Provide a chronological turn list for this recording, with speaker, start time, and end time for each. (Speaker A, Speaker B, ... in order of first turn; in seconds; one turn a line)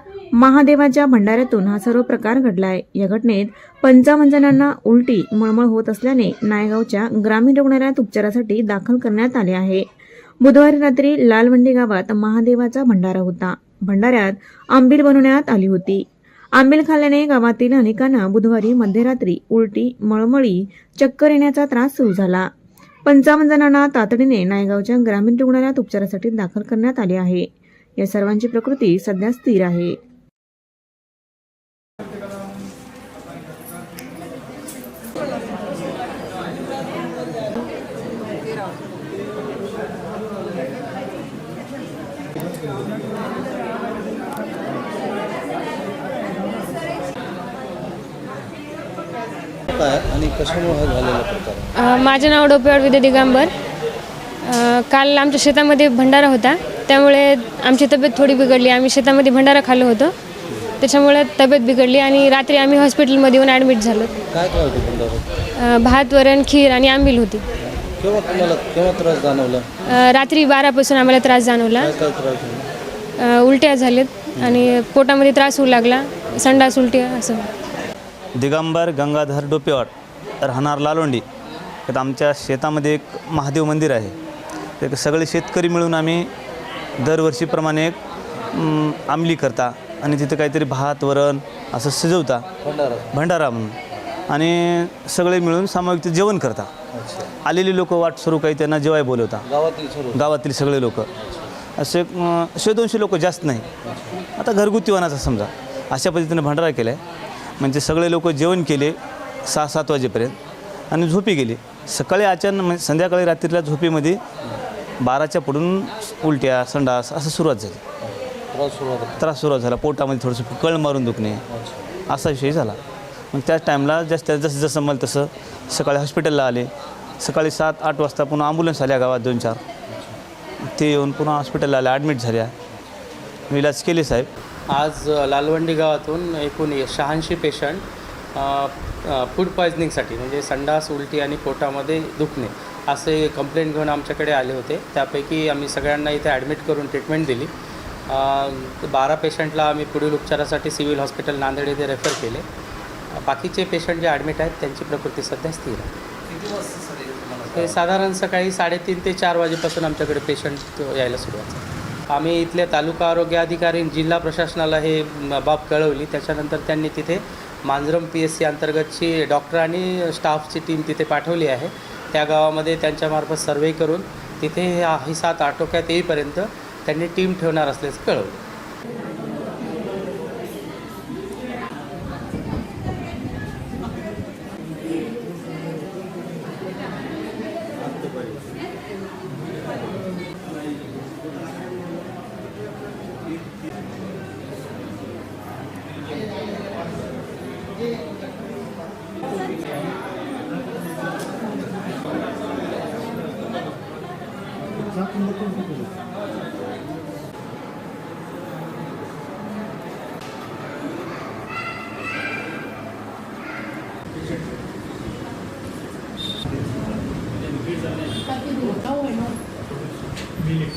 Speaker A: 0.4-9.9
Speaker A: 10.4-16.0
Speaker A: 16.6-22.5
Speaker A: 23.1-30.0
Speaker B: 49.7-51.7
Speaker C: 51.8-53.5
Speaker C: 54.5-60.1
Speaker B: 60.5-60.7
Speaker C: 60.8-64.1
Speaker B: 64.3-65.3
Speaker C: 65.6-67.4
Speaker B: 67.6-69.7
Speaker C: 69.9-71.9
Speaker B: 71.8-72.7
Speaker C: 73.2-77.5
Speaker B: 74.3-74.7
Speaker B: 76.3-76.6
Speaker D: 78.4-79.9
Speaker D: 80.4-81.2
Speaker D: 81.9-84.2
Speaker D: 84.8-86.3
Speaker D: 87.0-88.0
Speaker D: 88.5-92.5
Speaker B: 92.6-93.1
Speaker D: 93.1-93.8
Speaker D: 94.3-96.7
Speaker B: 96.9-97.3
Speaker D: 97.4-99.5
Speaker B: 99.5-100.2
Speaker D: 100.1-101.1
Speaker B: 101.2-101.5
Speaker D: 101.8-103.7
Speaker B: 103.8-104.2
Speaker D: 104.4-107.0
Speaker D: 107.6-110.4
Speaker D: 110.9-114.2
Speaker D: 115.0-117.8
Speaker B: 118.1-119.2
Speaker D: 119.2-121.4
Speaker B: 121.5-121.9
Speaker D: 122.1-122.8
Speaker D: 123.3-129.6
Speaker B: 129.9-130.2
Speaker D: 130.8-132.5
Speaker D: 133.5-134.3
Speaker E: 134.7-137.8
Speaker E: 138.4-147.5
Speaker E: 148.1-152.4
Speaker E: 153.2-155.9
Speaker B: 156.3-157.8
Speaker E: 157.5-178.4